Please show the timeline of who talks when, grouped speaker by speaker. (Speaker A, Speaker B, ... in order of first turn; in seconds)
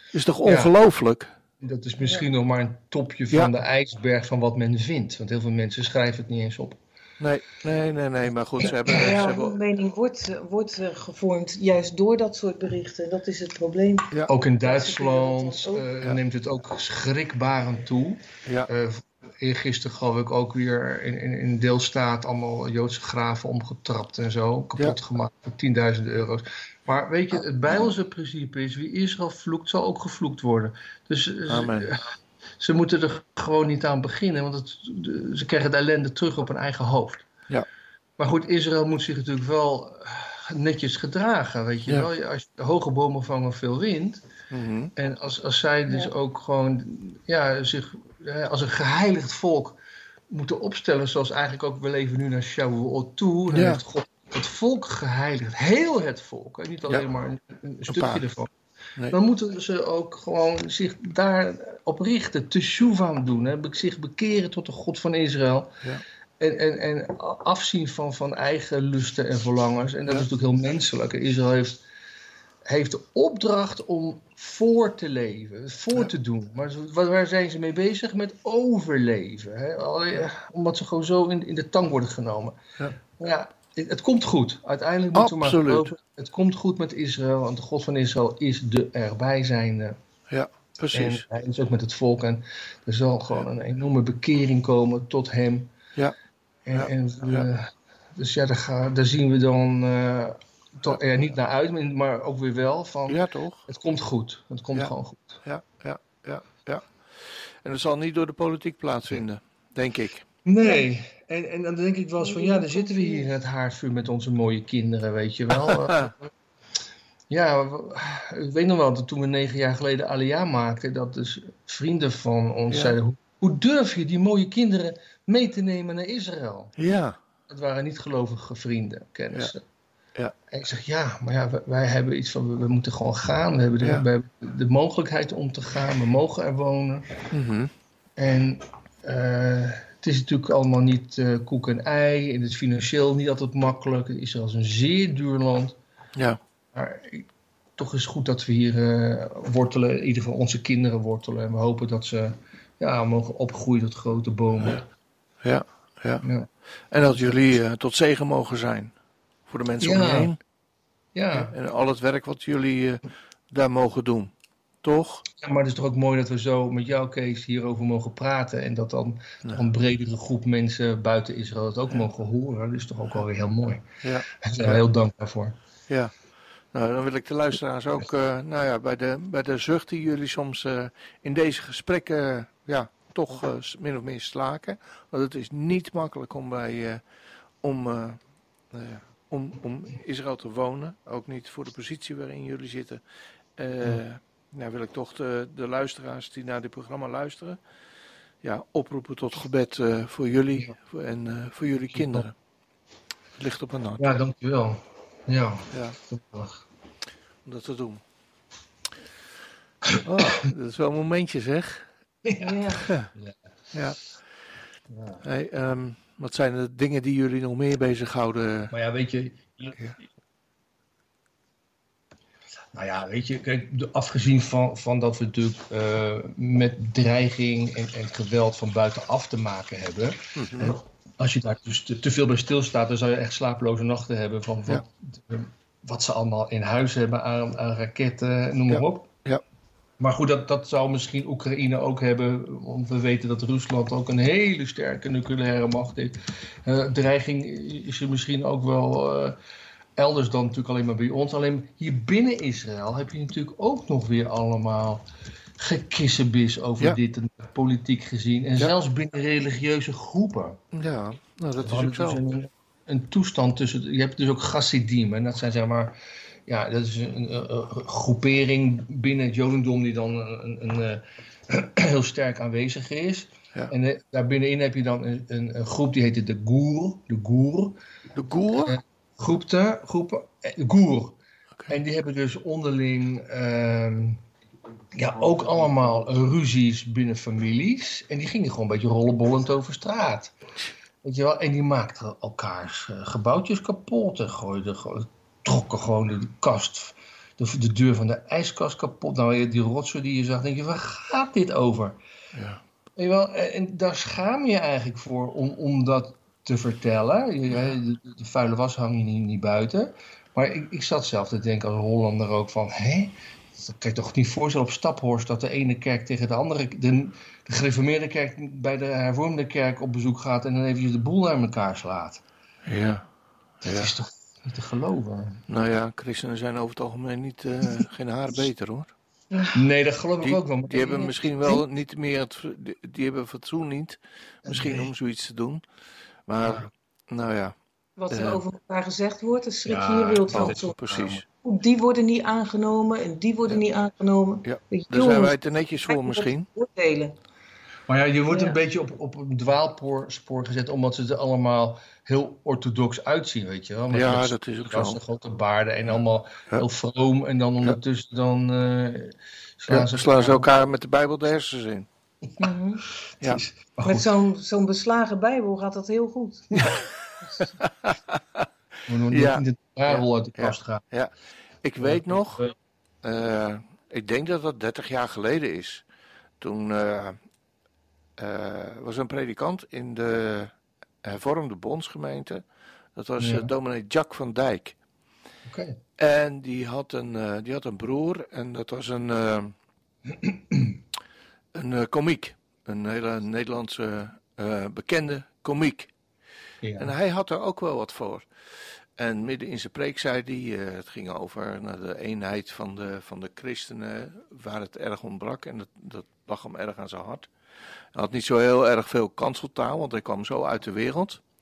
Speaker A: 0.1-1.3, 7.2-9.6, 31.5-31.9, 44.5-44.9, 53.5-53.8, 57.9-58.2, 85.1-85.9, 90.3-91.2, 96.7-97.4, 103.1-103.6, 105.4-110.2, 115.5-116.1, 122.7-123.0, 126.8-127.2, 133.8-134.1, 137.3-137.7, 155.4-156.2, 156.9-158.9, 159.5-160.4, 161.3-164.3, 164.8-165.2, 174.0-174.8, 176.7-187.0, 187.6-188.2, 188.7-193.0, 193.6-197.6, 198.4-202.3, 203.4-204.2, 205.7-206.0, 207.4-208.0, 210.0-211.9, 212.8-213.1, 213.7-214.0, 215.2-218.7, 230.4-230.8, 238.7-239.4, 260.7-262.2, 278.1-278.8, 302.3-302.6, 322.7-323.0, 323.6-323.9, 325.5-328.9, 330.2-335.6, 336.3-337.5, 338.1-338.4, 340.3-341.2, 344.4-346.4, 353.9-355.0, 359.7-361.9, 366.6-366.8, 367.6-368.4, 369.1-372.4, 373.0-375.8, 376.4-377.2, 378.2-380.5, 381.0-382.4, 382.9-384.8, 386.0-389.5, 391.5-395.9, 396.8-398.3, 399.0-407.3, 407.9-411.2
Speaker B: 0.4-0.7, 1.6-6.8, 14.3-32.1, 32.6-37.3, 38.2-44.2, 45.0-58.5, 59.1-65.7, 66.4-71.8, 72.7-82.6, 83.1-90.0, 90.9-95.7, 96.7-105.4, 110.5-116.3, 117.3-126.7, 127.5-129.6, 130.5-137.3, 138.2-145.8, 146.7-154.9, 156.2-156.5, 159.8-160.3, 161.1-161.5, 165.3-173.8, 174.4-175.6, 201.9-202.2, 204.0-206.6, 212.2-213.4, 214.9-215.2, 218.7-219.8, 222.7-239.1, 240.0-249.4, 249.9-255.0, 255.6-260.6, 261.6-277.8, 278.5-281.2, 281.7-284.2, 284.9-290.3, 291.0-302.0, 302.9-322.2, 323.6-325.4, 329.5-331.6, 334.4-334.9, 339.6-341.2, 347.9-360.4, 363.2-364.1, 368.9-370.8, 371.8-372.5, 383.2-383.5, 385.4-385.8, 390.1-390.8, 396.6-396.9
Speaker C: 8.9-15.8, 112.2-113.3, 212.4-212.9, 329.3-329.6, 338.0-340.8, 341.4-345.4, 345.9-347.1, 348.3-348.6, 362.4-362.8, 363.8-367.5